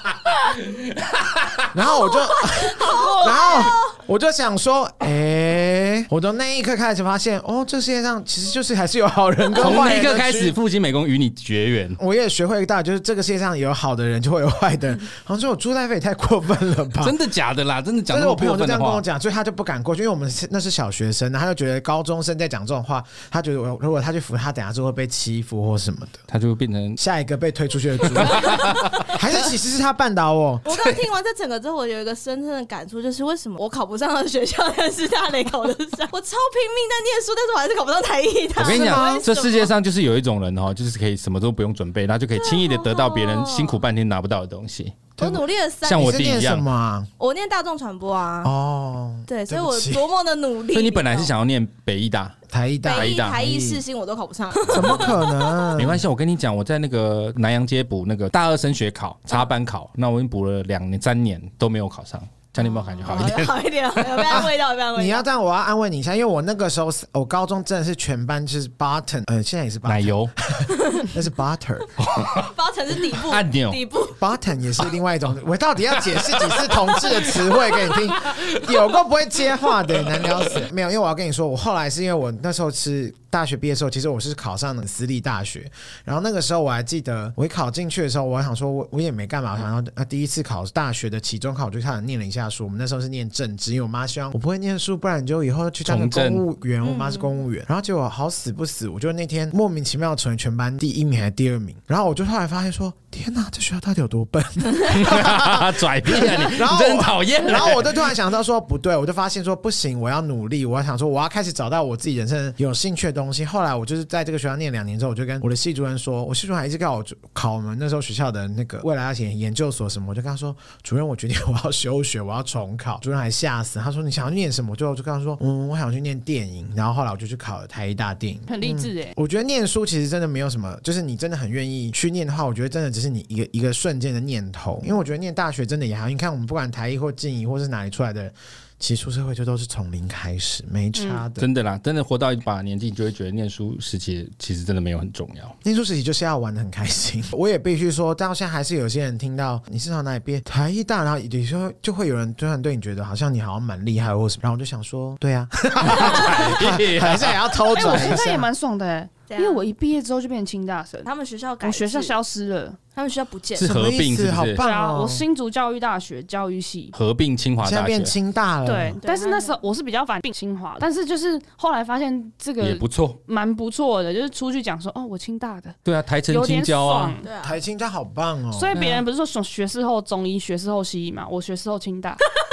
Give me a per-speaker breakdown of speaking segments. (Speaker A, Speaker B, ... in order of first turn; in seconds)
Speaker A: 0.6-1.7, 9.6-12.0, 17.0-19.0, 26.3-27.0, 28.0-29.1, 30.7-31.1, 38.6-45.1, 45.8-46.6, 50.7-52.4, 52.9-53.4, 54.7-55.1, 55.8-64.5, 69.8-70.3, 72.0-72.5, 73.0-73.8, 76.3-77.3, 77.9-78.7, 80.1-80.4, 95.8-96.4, 104.9-108.1, 141.4-145.6, 155.8-158.1, 163.6-164.6, 166.9-168.1, 172.6-173.2, 175.8-177.2
Speaker B: 1.7-10.6, 12.0-17.1, 18.1-26.2, 27.0-30.6, 38.6-39.2, 45.2-47.1, 48.4-50.1, 52.5-53.8, 54.7-56.0, 64.3-72.0, 74.2-141.5, 145.6-158.5, 163.6-165.2, 167.6-169.0, 177.4-178.9
Speaker C: 2.5-3.9, 28.4-29.1, 30.6-39.7, 42.4-43.8, 45.2-46.2, 47.2-48.5, 49.3-51.3, 52.8-55.8, 62.6-65.2, 70.8-71.1, 72.3-74.2, 96.8-97.3, 159.3-159.7, 161.1-162.2, 162.9-163.7, 169.0-169.6, 177.2-177.6
Speaker D: 3.1-3.4, 128.5-129.2, 140.9-141.2, 157.7-161.1, 161.6-162.8, 164.6-166.9, 168.7-175.8, 176.3-177.3, 178.5-182.2